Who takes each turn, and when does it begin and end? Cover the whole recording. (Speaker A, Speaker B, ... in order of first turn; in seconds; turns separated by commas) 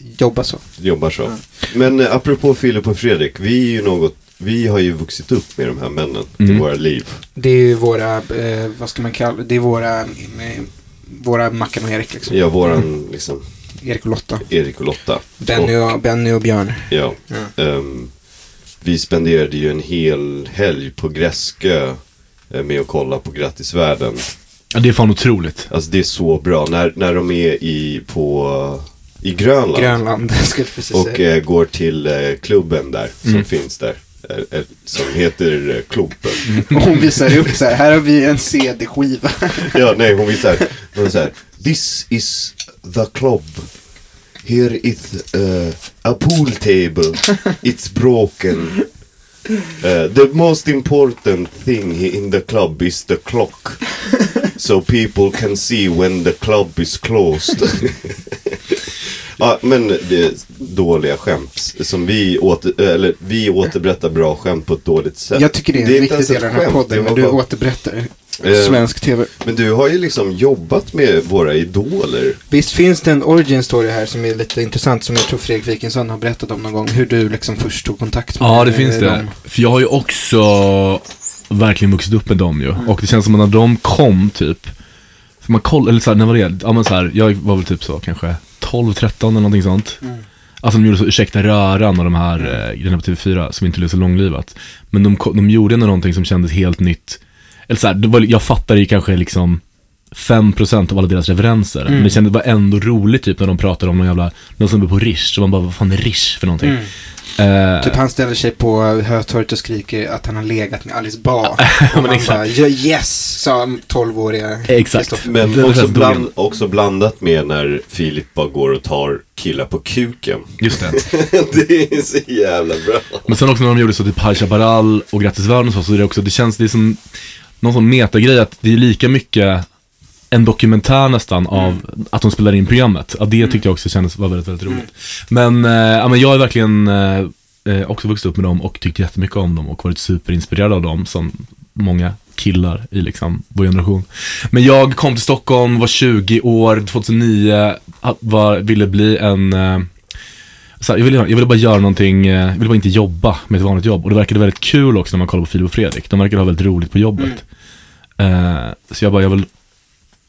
Speaker A: 0.1-0.7, Speaker B: 0.8-7.2, Speaker C: 6.4-6.6, Speaker A: 7.3-12.8, Speaker B: 12.3-13.4, Speaker A: 13.8-14.5, Speaker B: 14.5-15.8, Speaker A: 15.4-17.5, Speaker B: 16.9-18.1, Speaker B: 18.8-22.0, Speaker B: 22.5-24.3, Speaker C: 24.7-25.7, Speaker B: 25.7-30.0, Speaker A: 29.7-31.2, Speaker B: 30.9-36.7, Speaker C: 36.5-36.8, Speaker A: 36.6-39.9, Speaker B: 39.7-43.7, Speaker B: 44.4-48.9, Speaker B: 49.8-67.4, Speaker A: 65.3-69.3, Speaker B: 68.4-72.4, Speaker A: 72.5-79.3, Speaker C: 78.4-84.7, Speaker C: 85.4-90.0, Speaker C: 90.6-99.6, Speaker C: 100.1-106.8, Speaker A: 101.9-102.2, Speaker A: 106.6-106.9, Speaker C: 107.4-108.0, Speaker A: 107.8-115.3, Speaker C: 111.6-112.5, Speaker C: 114.7-116.2, Speaker B: 115.2-123.3, Speaker C: 120.6-121.0, Speaker C: 123.3-127.0, Speaker C: 127.6-129.6, Speaker C: 130.3-149.9, Speaker A: 131.5-131.8, Speaker C: 150.8-157.4, Speaker C: 158.2-159.5